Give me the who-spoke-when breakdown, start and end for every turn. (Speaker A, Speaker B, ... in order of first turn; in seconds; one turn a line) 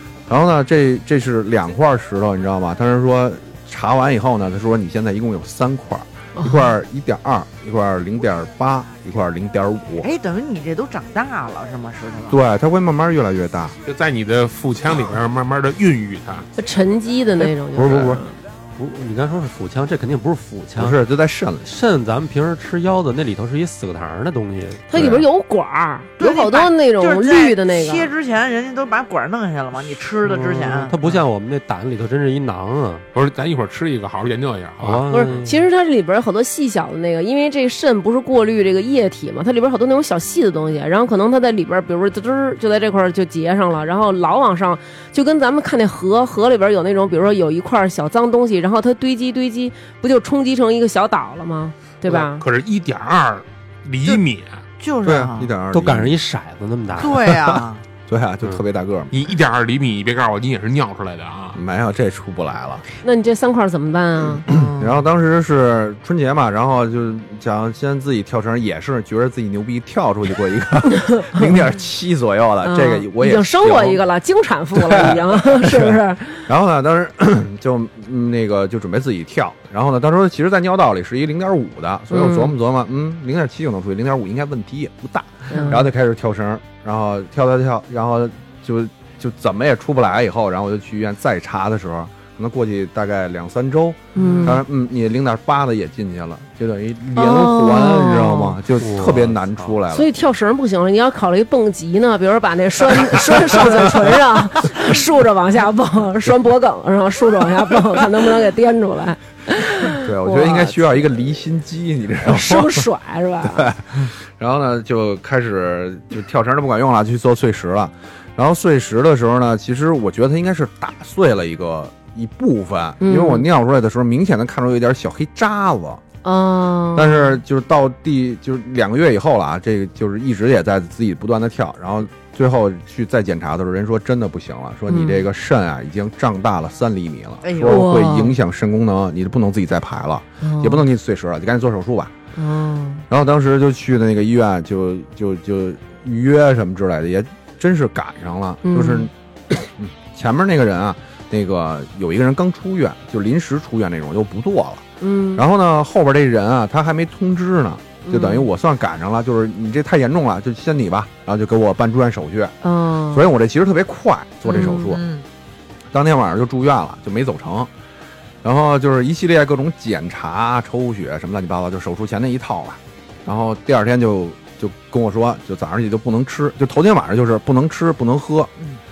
Speaker A: 0.3-10.1
Speaker B: 6.4-6.7
Speaker C: 10.0-12.4
Speaker A: 12.3-13.8
Speaker D: 13.8-16.5
Speaker B: 16.6-18.4
Speaker A: 17.8-18.2
Speaker E: 18.8-21.0
Speaker A: 20.8-21.7
Speaker E: 21.6-25.1
Speaker B: 24.9-28.1
Speaker A: 24.9-25.2
Speaker C: 26.2-31.0
Speaker E: 30.2-33.1
Speaker D: 33.1-35.1
Speaker E: 34.8-35.6
Speaker B: 35.1-52.4
Speaker D: 52.1-54.6
Speaker C: 54.8-55.5
Speaker A: 55.0-56.2
Speaker E: 55.7-57.3
Speaker C: 57.0-57.9
Speaker A: 58.1-59.1
Speaker D: 59.1-61.6
Speaker A: 61.5-62.9
Speaker B: 63.0-64.5
Speaker A: 64.5-74.0
Speaker C: 64.5-65.0
Speaker B: 70.9-71.6
Speaker B: 72.6-76.5
Speaker A: 74.8-100.1
Speaker B: 82.1-82.6
Speaker B: 85.5-85.9
Speaker E: 94.2-94.6
Speaker B: 94.2-94.6
Speaker B: 97.2-98.6
Speaker E: 98.8-99.8
Speaker B: 99.9-111.0
Speaker A: 110.0-112.9
Speaker B: 112.2-113.7
Speaker A: 113.4-126.0
Speaker B: 123.0-123.5
Speaker B: 126.2-127.4
Speaker A: 127.0-142.1
Speaker B: 134.9-135.2
Speaker C: 137.4-138.1
Speaker B: 137.7-138.4
Speaker B: 140.4-140.8
Speaker B: 142.4-143.0
Speaker A: 143.1-154.8
Speaker B: 148.6-149.1
Speaker B: 155.0-155.4
Speaker A: 155.4-162.6
Speaker B: 158.1-158.5
Speaker B: 162.6-163.3
Speaker A: 163.1-165.0
Speaker B: 164.5-164.9
Speaker C: 164.7-165.2
Speaker A: 165.9-167.7
Speaker A: 168.4-178.5